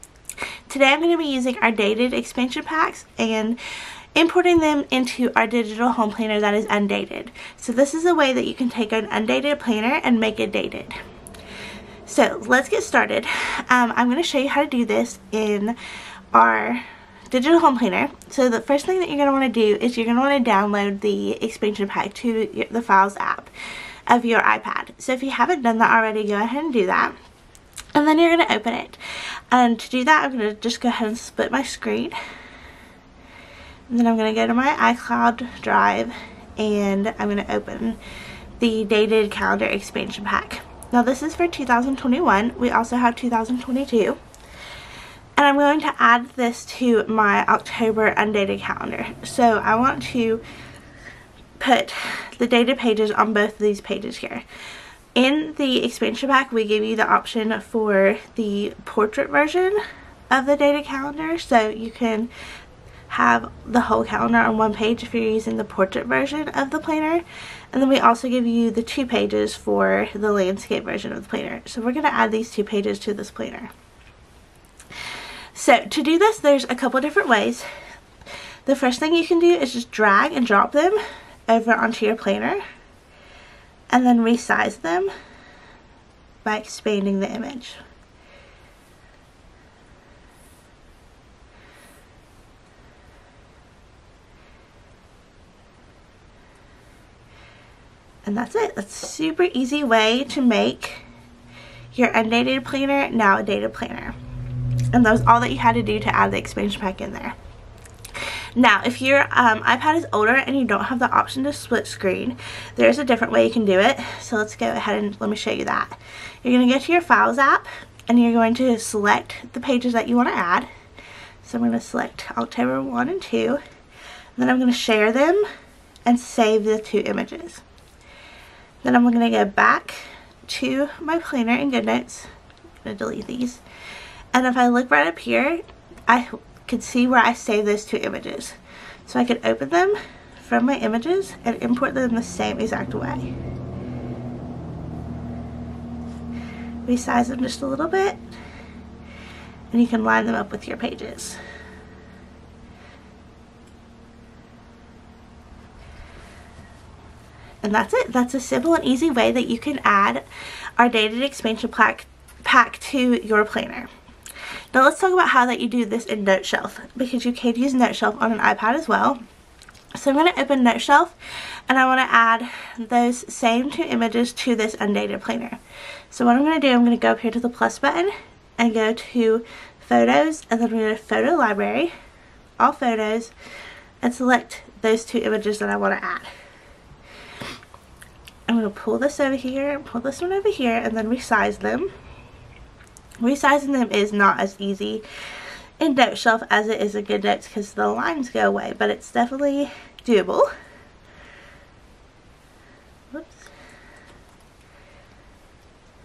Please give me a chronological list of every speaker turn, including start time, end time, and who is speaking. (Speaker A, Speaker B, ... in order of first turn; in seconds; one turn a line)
Speaker A: 0.7-3.6
Speaker A: 4.1-11.0
Speaker A: 12.1-15.8
Speaker A: 16.3-23.5
Speaker A: 24.1-27.2
Speaker A: 27.9-29.0
Speaker A: 29.5-32.2
Speaker A: 33.9-38.0
Speaker A: 38.6-44.2
Speaker A: 45.4-50.4
Speaker A: 51.6-54.5
Speaker A: 55.1-62.3
Speaker A: 63.1-73.7
Speaker A: 75.5-77.7
Speaker A: 78.7-82.6
Speaker A: 83.9-85.1
Speaker A: 86.4-87.8
Speaker A: 98.2-101.0
Speaker A: 101.9-104.2
Speaker A: 104.9-107.4
Speaker A: 108.5-120.7
Speaker A: 121.4-123.6
Speaker A: 124.4-125.5
Speaker A: 126.0-127.6
Speaker A: 128.8-132.3
Speaker A: 132.8-133.6
Speaker A: 134.3-143.3
Speaker A: 146.8-148.2
Speaker A: 149.7-151.4
Speaker A: 157.6-160.2
Speaker A: 160.8-163.9
Speaker A: 164.7-169.2
Speaker A: 169.9-171.2
Speaker A: 171.7-175.6
Speaker A: 176.1-181.9
Speaker A: 182.6-183.3
Speaker A: 184.0-186.3
Speaker A: 188.5-191.9
Speaker A: 193.2-195.1
Speaker A: 195.8-200.5
Speaker A: 203.1-203.5